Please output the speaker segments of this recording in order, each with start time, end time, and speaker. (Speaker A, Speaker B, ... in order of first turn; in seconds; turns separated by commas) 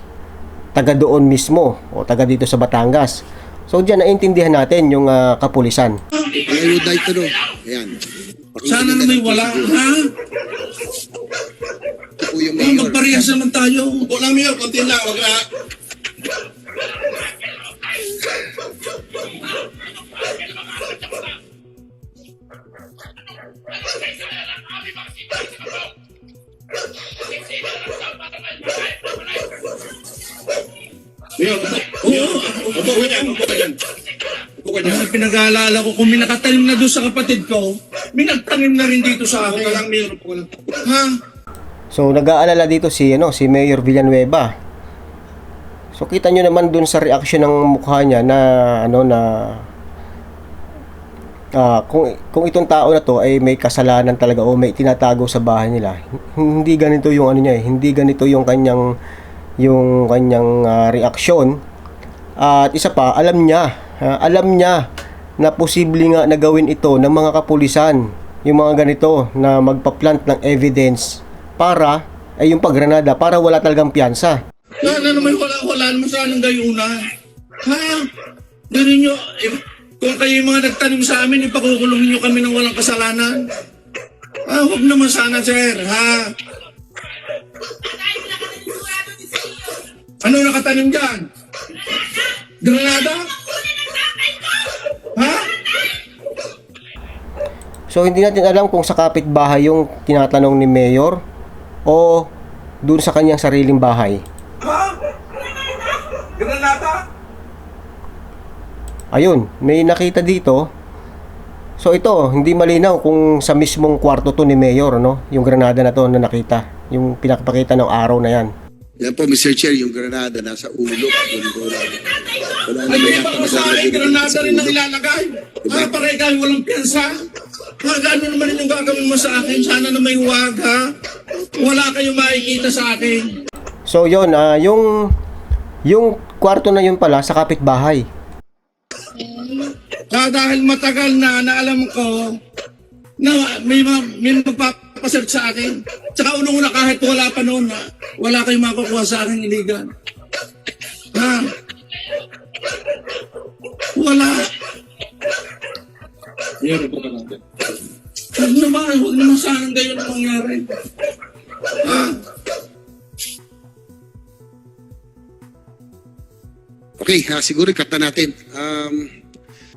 Speaker A: 0.7-6.0, Speaker B: 6.4-8.0, Speaker B: 8.5-9.8, Speaker C: 8.7-10.1, Speaker B: 12.2-13.0, Speaker C: 12.6-15.5, Speaker C: 31.4-33.7, Speaker C: 34.8-41.2, Speaker A: 41.9-44.5, Speaker A: 45.9-49.7, Speaker A: 51.5-58.9, Speaker A: 59.6-61.6, Speaker A: 62.4-64.9, Speaker A: 65.4-74.4, Speaker C: 74.8-77.0, Speaker C: 77.6-78.1, Speaker C: 78.7-83.4, Speaker C: 84.5-86.3, Speaker C: 90.2-91.3, Speaker C: 92.6-93.3, Speaker C: 95.2-95.6, Speaker A: 97.9-101.2, Speaker A: 101.8-102.3, Speaker A: 102.8-104.2, Speaker C: 104.6-105.0, Speaker C: 106.3-107.0, Speaker A: 109.1-110.7, Speaker A: 111.8-118.5, Speaker B: 119.0-122.1, Speaker B: 122.6-124.8, Speaker C: 122.9-127.2, Speaker B: 125.7-125.9, Speaker C: 127.8-130.9, Speaker C: 131.5-133.4, Speaker A: 133.9-135.1, Speaker A: 135.9-138.0, Speaker C: 139.2-142.4, Speaker C: 143.2-149.9, Speaker C: 151.1-151.5, Speaker C: 153.9-154.5, Speaker C: 156.6-157.4, Speaker C: 158.3-160.7, Speaker C: 161.8-162.2, Speaker B: 167.0-169.1